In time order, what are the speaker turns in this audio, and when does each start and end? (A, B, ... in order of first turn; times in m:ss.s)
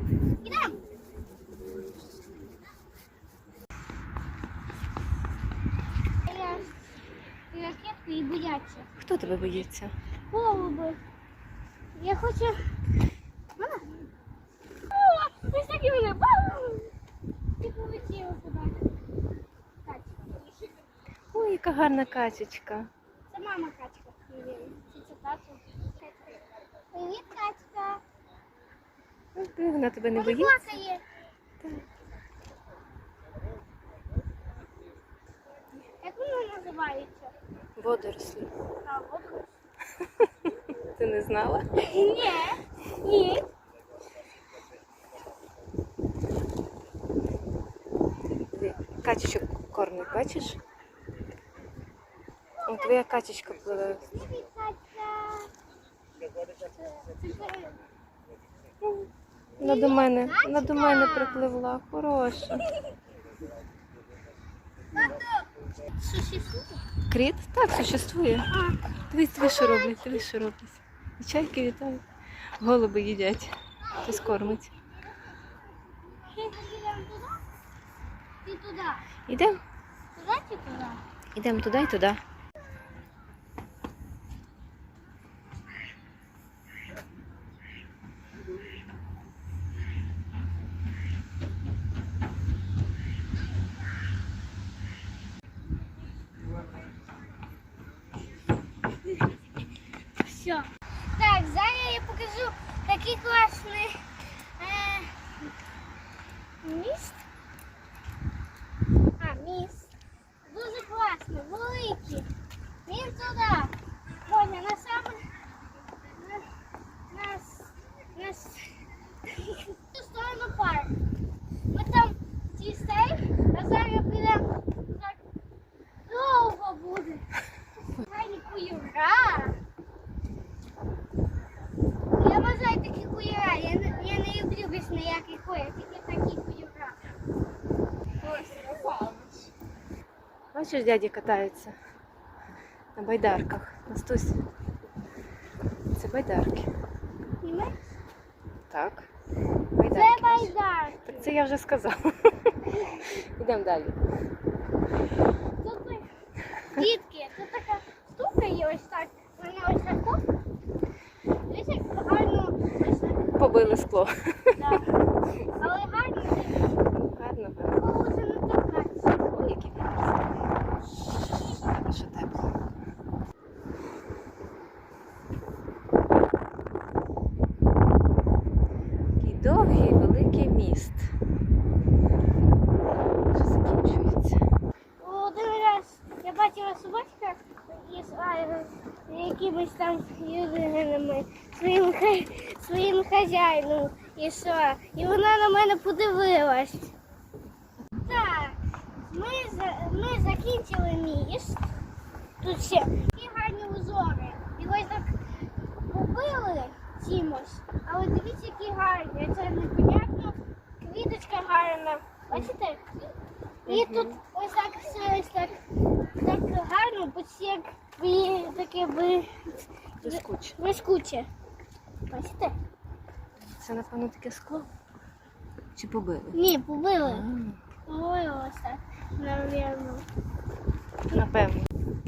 0:00.4-0:00.8 A
0:06.3-0:06.7 A
0:07.5-0:08.9 A
0:09.0-0:09.9 B
0:10.3-0:11.0 A
0:12.0-0:12.6 A
0:13.6-0:13.8 A
0:14.9-0:16.9 A
0:17.6-0:18.8 A
0:19.8-0:20.5 A
0:21.3-0:22.9 B
0:23.3-0:26.4 A
0:26.9-0:28.0 A
0:29.3-0:30.6 B
0:30.1-0:31.0 A
0:31.6-0:31.8 B
0:36.0-0:37.3 A
0:37.8-0:38.5 B
0:38.8-0:39.5 A
0:40.2-0:41.6 B
0:41.8-0:43.5 A
0:48.5-0:50.6 B
0:52.6-0:53.0 A
0:52.7-0:54.1 B
0:54.0-0:55.5 A
0:56.7-0:57.8 A
0:59.6-1:02.6 B
0:59.6-1:01.5 A
1:02.5-1:02.9 A
1:04.9-1:06.8 A
1:07.1-1:08.5 B
1:08.5-1:08.8 A
1:09.1-1:12.0 B
1:09.4-1:10.2 A
1:12.6-1:14.7 B
1:13.8-1:14.9 A
1:16.1-1:17.4 A
1:18.4-1:19.0 A
1:19.3-1:19.6 B
1:20.2-1:21.0 A
1:21.3-1:22.2 B
1:40.2-1:44.0 A
1:44.6-1:45.2 A
1:46.6-1:47.2 A
1:49.2-1:49.9 A
1:50.5-1:52.3 A
1:52.9-1:53.7 A
1:54.2-1:55.3 A
1:56.1-1:56.5 A
1:57.1-1:58.8 A
1:59.3-2:00.9 A
2:01.7-2:05.2 A
2:06.1-2:07.3 A
2:07.9-2:09.6 A
2:12.2-2:17.0 A
2:20.5-2:21.8 B
2:22.9-2:24.4 B
2:25.9-2:26.7 B
2:27.4-2:27.8 A
2:28.7-2:29.1 B
2:29.8-2:30.6 B
2:29.9-2:31.3 A
2:31.1-2:34.0 B
2:32.7-2:33.1 A
2:35.6-2:36.1 A
2:36.7-2:40.2 A
2:41.5-2:43.3 A
2:43.4-2:44.8 B
2:44.6-2:44.9 A
2:45.5-2:46.7 A
2:46.9-2:47.8 B
2:47.8-2:49.1 A
2:49.3-2:50.2 B
2:51.6-2:52.5 B
2:59.2-3:01.1 B
3:03.3-3:04.4 B
3:05.0-3:16.9 A
3:18.0-3:21.6 A
3:22.4-3:25.1 A
3:25.9-3:33.0 A
3:33.7-3:34.2 B
3:33.7-3:35.6 A
3:36.2-3:41.3 A
3:40.0-3:40.6 B
3:42.1-3:42.6 A
3:43.4-3:44.7 B
3:45.8-3:46.4 B
3:46.3-3:47.2 A
3:47.0-3:47.6 B
3:47.9-3:50.1 A
3:51.1-3:51.7 B